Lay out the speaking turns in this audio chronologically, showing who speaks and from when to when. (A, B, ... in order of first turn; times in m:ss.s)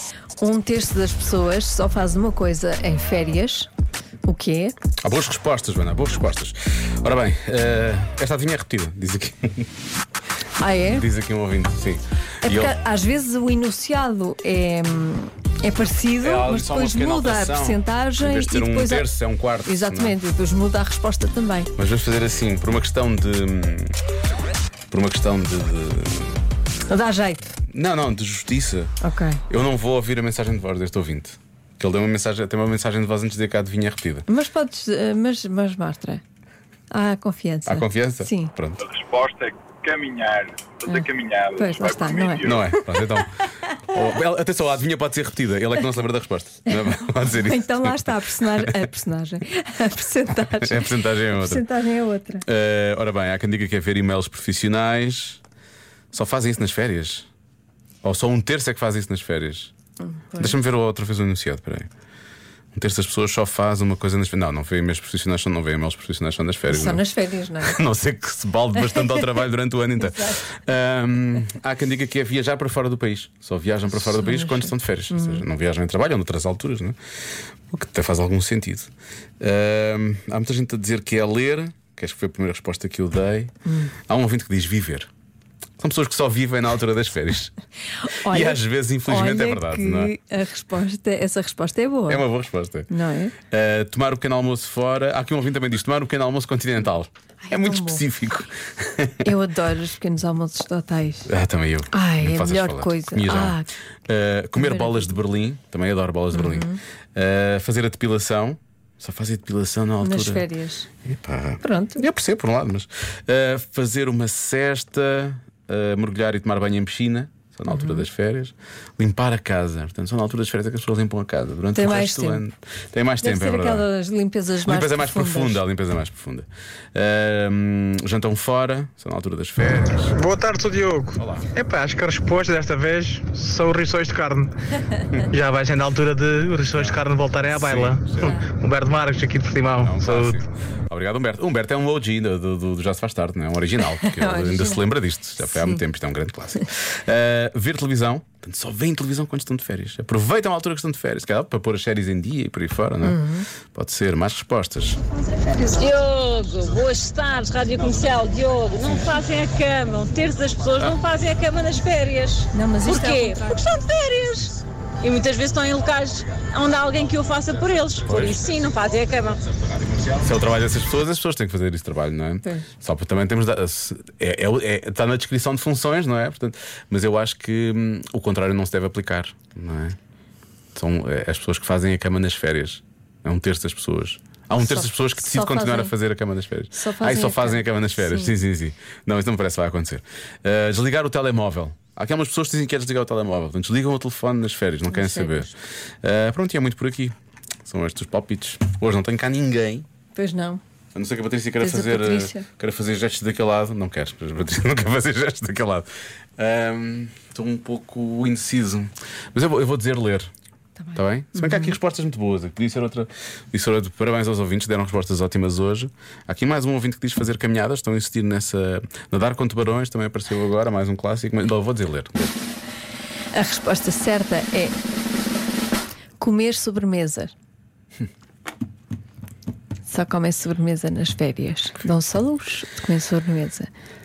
0:00.4-0:03.7 A
0:04.2-0:04.7 A
0:05.0-0:09.7 B
0:10.6-0:11.1 A
0:10.9-0:12.8 B
0:12.4-0:19.1 A
0:16.2-0:20.2 B
0:19.6-0:21.7 A
0:21.8-0:23.9 B
0:24.9-0:26.4 B
0:26.9-0:27.5 A
0:27.7-0:28.9 B
0:29.0-0:29.4 A
0:29.5-0:34.2 B
0:34.3-0:36.2 A
0:36.9-0:38.5 A
0:37.6-0:38.8 B
0:38.8-0:42.6 C
0:40.9-0:42.6 A
0:42.4-0:43.3 B
0:43.9-0:48.9 B
0:47.2-0:52.4 A
0:50.4-0:51.6 B
0:52.4-0:55.4 B
0:56.1-0:57.3 B
0:58.0-0:59.7 B
1:00.0-1:00.6 A
1:00.4-1:01.9 B
1:02.7-1:07.0 B
1:06.7-1:07.8 A
1:07.6-1:17.0 B
1:14.0-1:15.4 A
1:17.7-1:23.5 B
1:23.6-1:23.9 A
1:24.1-1:25.1 B
1:25.8-1:27.5 B
1:28.0-1:32.2 A
1:28.2-1:30.1 B
1:32.1-1:32.9 B
1:32.9-1:33.3 A
1:33.5-1:39.3 B
1:37.4-1:38.0 A
1:39.2-1:41.3 A
1:41.3-1:50.4 B
1:41.9-1:43.7 A
1:44.6-1:45.2 A
1:46.3-1:46.8 A
1:50.0-1:50.9 A
1:51.0-2:03.9 B
1:51.6-1:52.0 A
1:57.7-1:58.0 A
2:01.7-2:02.4 A
2:03.2-2:05.6 A
2:04.6-2:10.1 B
2:10.1-2:14.5 D
2:11.2-2:11.5 B
2:15.3-2:20.4 D
2:16.7-2:18.4 B
2:18.2-2:18.5 A
2:19.8-2:35.0 B
2:23.9-2:24.8 A
2:25.5-2:25.8 A
2:33.0-2:33.4 A
2:35.4-2:35.8 A
2:35.7-2:49.4 E
2:42.5-2:43.5 A
2:48.0-2:48.4 B
2:50.1-3:00.0 B
3:00.7-3:19.8 B
3:04.5-3:05.9 A
3:06.7-3:08.3 A
3:14.9-3:15.5 A
3:20.1-3:20.6 A
3:20.9-3:30.3 B
3:21.6-3:22.4 A
3:30.8-3:31.7 A
3:30.9-3:42.4 B
3:43.3-3:44.8 A
3:46.2-3:47.3 A
3:49.9-3:53.7 A